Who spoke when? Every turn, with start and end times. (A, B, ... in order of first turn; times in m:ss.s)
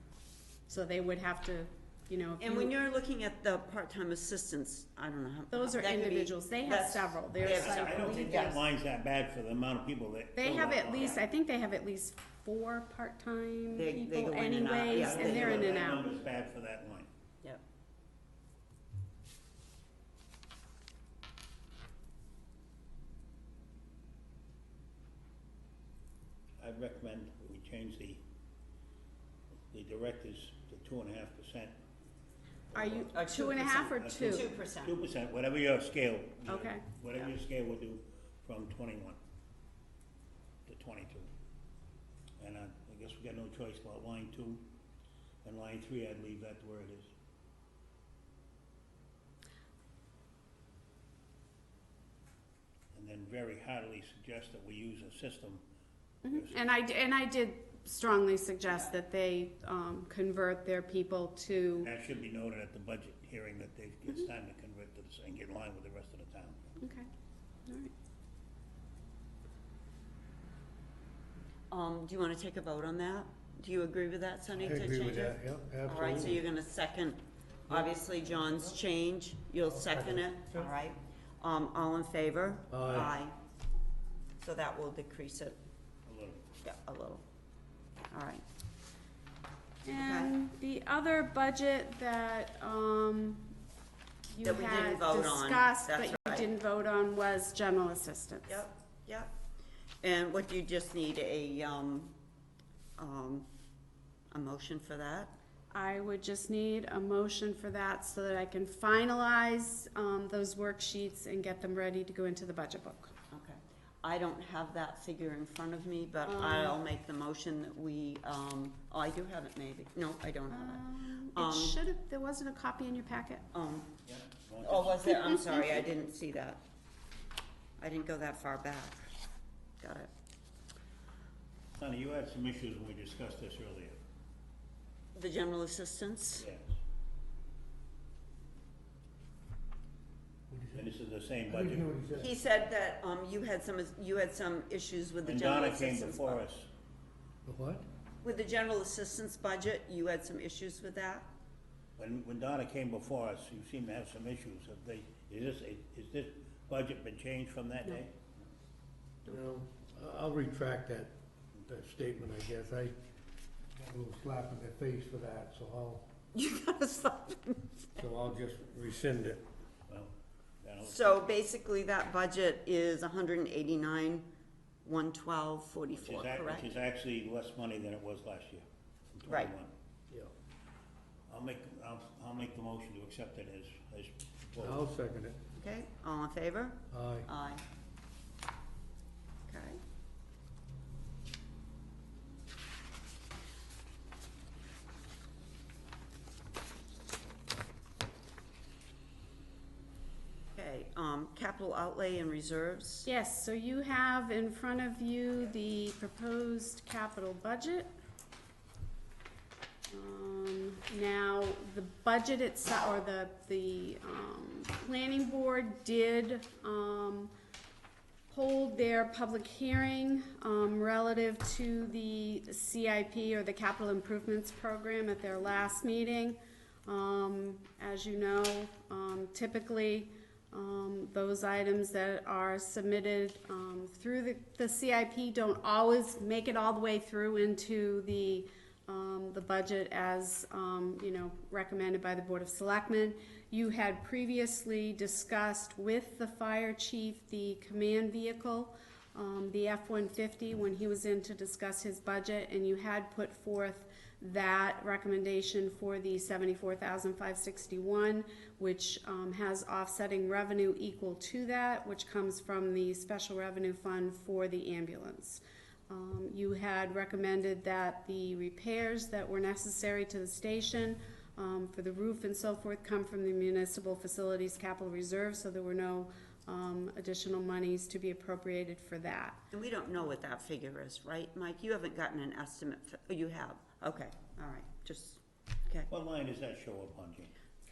0:00.7-0:02.8 A
0:02.4-0:08.6 B
0:05.5-0:08.5 A
0:07.4-0:11.2 C
0:10.4-0:16.1 A
0:13.7-0:15.9 B
0:14.9-0:17.1 C
0:26.6-0:28.2 C
0:29.7-0:31.8 C
0:32.7-0:33.1 C
0:32.7-0:34.5 A
0:33.1-0:35.0 B
0:34.0-0:39.2 C
0:36.5-0:36.8 A
0:40.7-0:41.3 C
0:42.4-0:44.6 C
0:45.4-0:47.1 C
0:52.9-0:55.6 C
0:56.2-1:01.9 A
0:56.3-0:56.6 C
1:01.8-1:06.6 C
1:06.8-1:07.1 A
1:07.7-1:07.9 A
1:11.7-1:23.4 B
1:14.6-1:16.4 D
1:19.7-1:20.7 D
1:22.7-1:23.2 D
1:24.4-1:25.6 B
1:26.1-1:26.4 C
1:26.6-1:27.2 B
1:28.1-1:28.4 B
1:29.8-1:33.5 A
1:29.9-1:30.3 B
1:34.3-1:38.6 A
1:34.4-1:36.5 B
1:38.5-1:39.3 B
1:40.0-1:42.1 B
1:43.0-1:43.5 B
1:44.3-1:45.3 B
1:45.7-1:53.1 A
1:53.3-2:01.8 B
1:56.2-1:56.8 A
2:00.5-2:03.4 A
2:03.5-2:03.9 B
2:04.1-2:05.2 C
2:04.6-2:06.6 B
2:07.8-2:09.1 B
2:09.8-2:10.1 B
2:11.7-2:14.0 C
2:15.2-2:16.5 B
2:16.4-2:16.7 C
2:20.5-2:20.9 D
2:20.7-2:22.0 C
2:21.5-2:22.3 D
2:22.2-2:26.4 B
2:25.2-2:26.7 C
2:27.5-2:27.8 D
2:28.2-2:31.3 B
2:32.0-2:38.2 C
2:39.2-2:43.0 D
2:43.8-2:46.1 D
2:46.3-2:47.9 B
2:48.0-2:49.4 D
2:49.9-2:51.2 C
2:50.8-2:54.3 B
2:54.8-2:56.7 B
2:55.9-2:59.7 C
2:59.3-2:59.5 B
3:01.3-3:04.8 C
3:04.6-3:05.4 D
3:05.6-3:07.6 B
3:06.9-3:07.3 D
3:09.5-3:09.8 B
3:20.6-3:23.1 B
3:23.0-3:27.9 A
3:29.9-3:37.3 A
3:38.3-4:39.4 A
4:39.5-4:45.9 B
4:45.9-4:47.3 C